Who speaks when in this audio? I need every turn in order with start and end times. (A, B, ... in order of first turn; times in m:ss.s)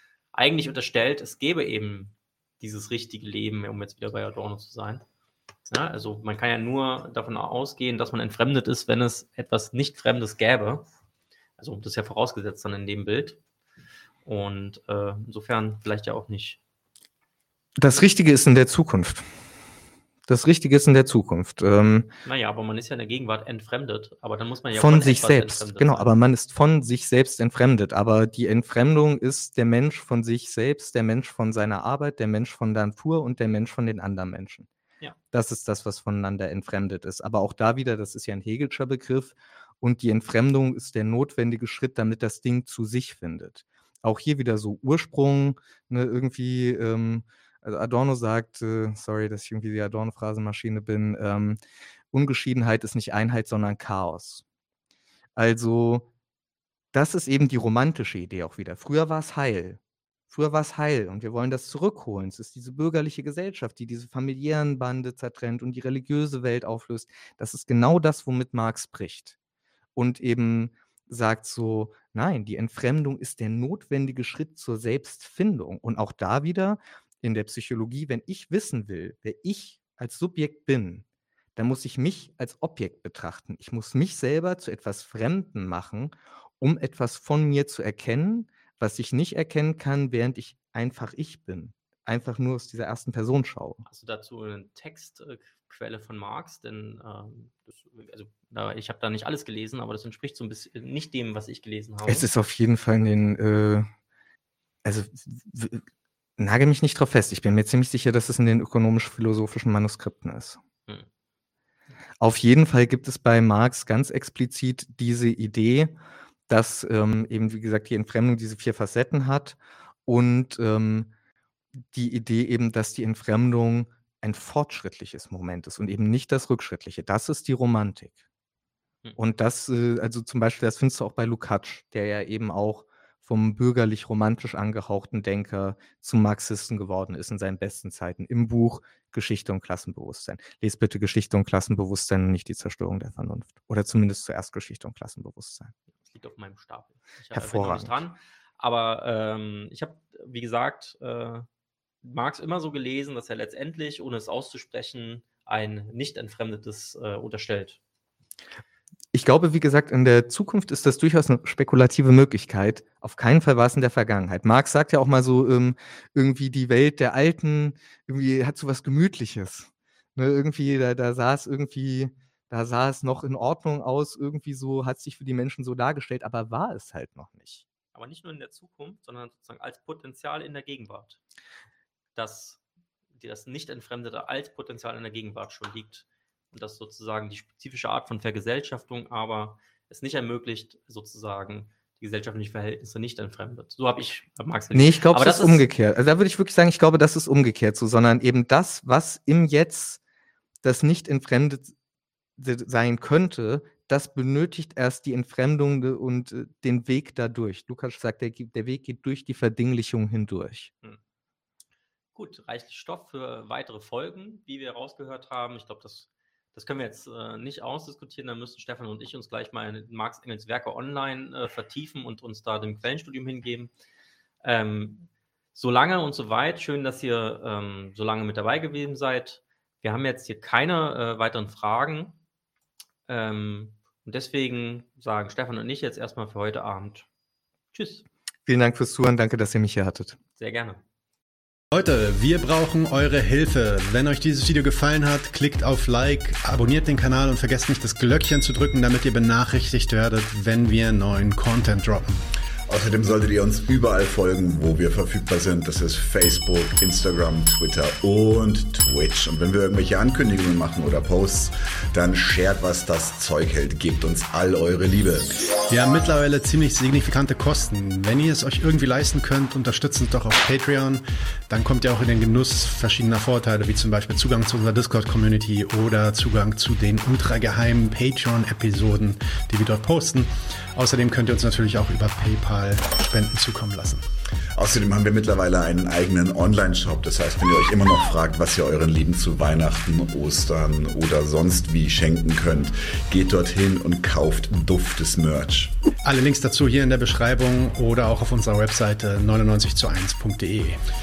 0:00.3-0:05.0 A
0:05.7-0:10.9 A
0:11.6-0:13.4 A
0:14.2-0:16.6 A
0:17.8-0:19.3 B
0:20.3-0:22.1 B
0:22.2-0:26.1 A
0:24.7-0:34.7 B
0:35.3-0:51.6 B
0:52.1-0:54.4 B
0:55.4-0:56.1 B
0:56.9-1:09.4 B
1:10.0-1:21.0 B
1:21.6-1:33.8 B
1:33.8-1:42.3 A
1:42.0-1:43.9 B
1:44.8-1:45.8 B
1:46.4-1:50.6 B
1:52.2-1:56.0 B
1:56.5-2:01.1 B
2:01.9-2:08.2 B
2:09.2-2:25.7 B
2:25.9-2:31.4 A
2:27.3-2:28.0 B
2:32.0-2:37.8 A
2:39.1-2:57.6 B
2:57.9-3:01.2 A
3:02.2-3:02.6 A
3:03.1-3:15.6 A
3:14.7-3:20.0 B
3:20.6-3:21.7 B
3:22.4-3:30.7 B
3:32.1-3:43.7 A
3:44.4-3:52.2 A
3:53.1-3:57.1 A
3:57.7-3:58.1 A
3:58.4-4:00.2 B
4:00.4-4:00.8 A
4:01.7-4:12.2 C
4:12.7-4:25.3 D
4:25.7-4:44.0 C
4:44.6-4:55.7 D
4:56.0-5:00.8 C